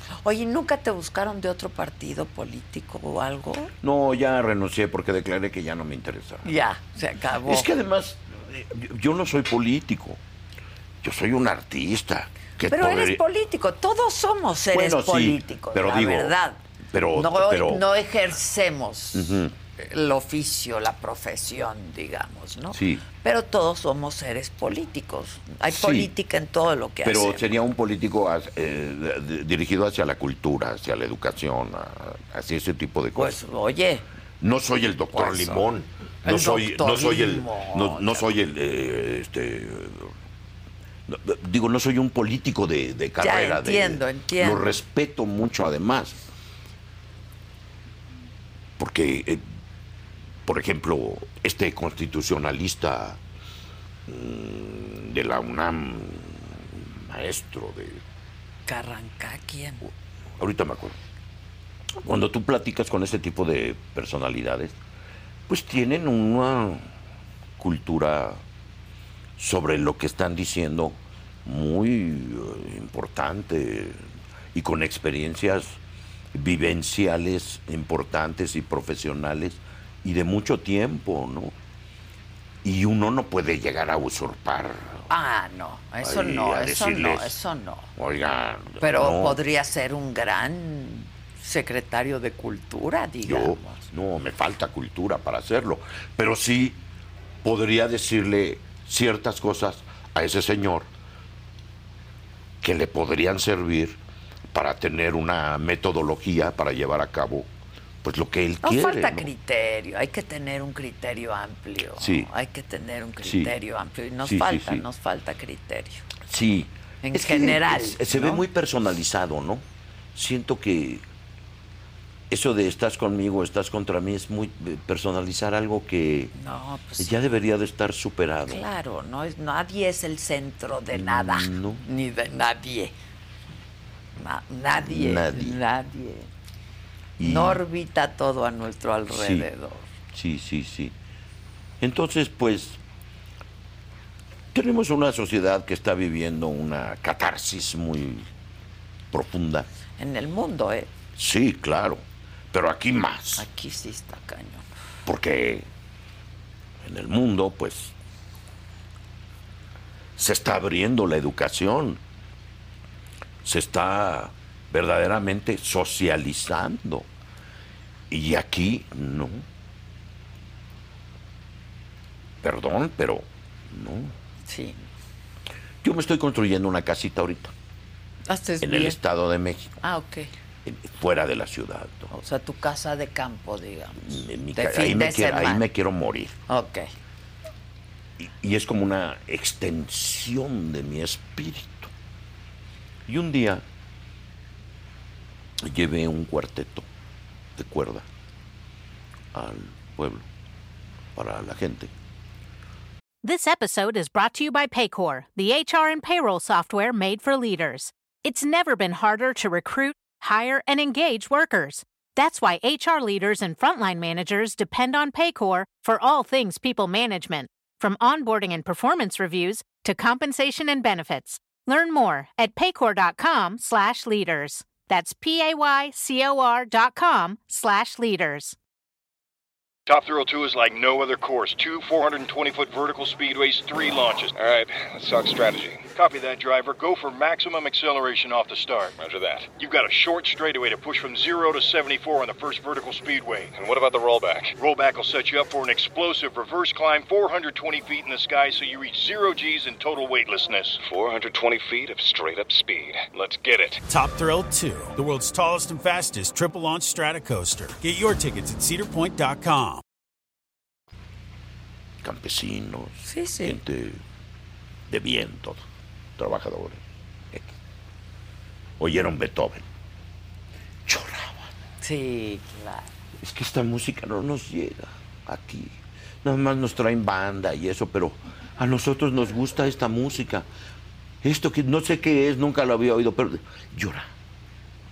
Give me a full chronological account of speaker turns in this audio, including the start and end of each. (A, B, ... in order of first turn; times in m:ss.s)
0:00.2-0:03.7 A
0:03.8-0:06.6 B
0:06.4-0:07.7 A
0:07.4-0:10.2 B
0:11.0-0:13.2 B
0:12.7-0:16.6 A
0:14.7-0:16.4 B
0:16.9-0:17.9 B
0:17.1-0:27.5 A
0:19.1-0:19.5 B
0:22.7-0:23.0 B
0:25.7-0:26.1 B
0:27.0-0:33.4 B
0:33.2-0:34.0 A
0:34.4-0:40.1 B
0:35.1-0:35.6 A
0:36.2-0:38.3 A
0:41.1-0:46.2 B
0:43.2-0:44.7 A
0:48.8-0:49.4 B
0:50.5-0:53.2 B
0:54.1-0:58.0 B
0:58.7-0:59.8 A
1:00.4-1:01.0 B
1:02.0-1:04.8 B
1:05.5-1:06.9 B
1:07.6-1:08.4 B
1:09.4-1:15.8 B
1:16.3-1:21.6 B
1:22.6-1:25.1 B
1:25.1-1:27.9 A
1:26.0-1:27.4 B
1:28.0-1:29.4 B
1:28.8-1:33.8 A
1:33.2-1:36.8 B
1:37.4-1:40.9 B
1:42.6-1:44.0 B
1:44.5-1:47.5 B
1:48.0-1:49.3 B
1:48.6-1:56.1 A
1:52.0-1:52.3 B
1:53.2-1:53.6 B
1:54.2-1:54.9 B
1:56.2-1:59.6 B
1:57.0-1:58.4 A
2:00.2-2:01.0 B
2:02.3-2:06.3 B
2:06.4-2:07.2 A
2:07.0-2:08.7 B
2:08.5-2:12.9 A
2:10.9-2:11.8 B
2:14.2-2:16.3 A
2:14.8-2:15.6 B
2:17.2-2:17.6 B
2:17.2-2:19.9 A
2:19.1-2:19.5 B
2:20.1-2:21.0 B
2:21.8-2:22.8 B
2:24.5-2:28.3 B
2:29.1-2:29.7 B
2:30.0-2:30.9 A
2:31.2-2:33.5 B
2:33.4-2:34.7 A
2:35.1-2:35.7 B
2:36.8-2:37.9 B
2:40.2-2:42.0 B
2:43.4-2:47.1 B
2:48.1-2:49.4 B
2:52.4-2:54.1 B
2:54.5-2:54.8 A
2:55.8-2:57.5 B
2:58.3-2:59.0 A
2:58.6-2:59.8 B
2:59.8-3:00.3 A
3:00.6-3:02.1 B
3:02.1-3:05.6 A
3:04.0-3:06.4 B
3:06.5-3:06.8 A
3:08.2-3:11.9 B
3:13.1-3:13.6 B
3:15.6-3:16.9 B
3:17.6-3:18.0 B
3:19.3-3:20.3 B
3:21.2-3:21.9 B
3:23.2-3:48.6 C
3:49.9-3:54.3 D
3:54.4-3:55.9 E
3:56.0-3:59.0 D
3:59.0-3:59.5 E
3:59.6-4:03.5 D
4:03.5-4:04.6 E
4:04.6-4:10.8 D
4:10.8-4:13.8 E
4:13.9-4:19.8 F
4:22.0-4:24.0 B
4:23.0-4:23.6 A
4:24.9-4:25.6 B
4:26.2-4:27.5 B
4:28.8-4:29.6 B
4:30.9-4:31.5 B
4:31.8-4:32.9 A
4:33.2-4:40.5 B
4:41.2-4:44.1 B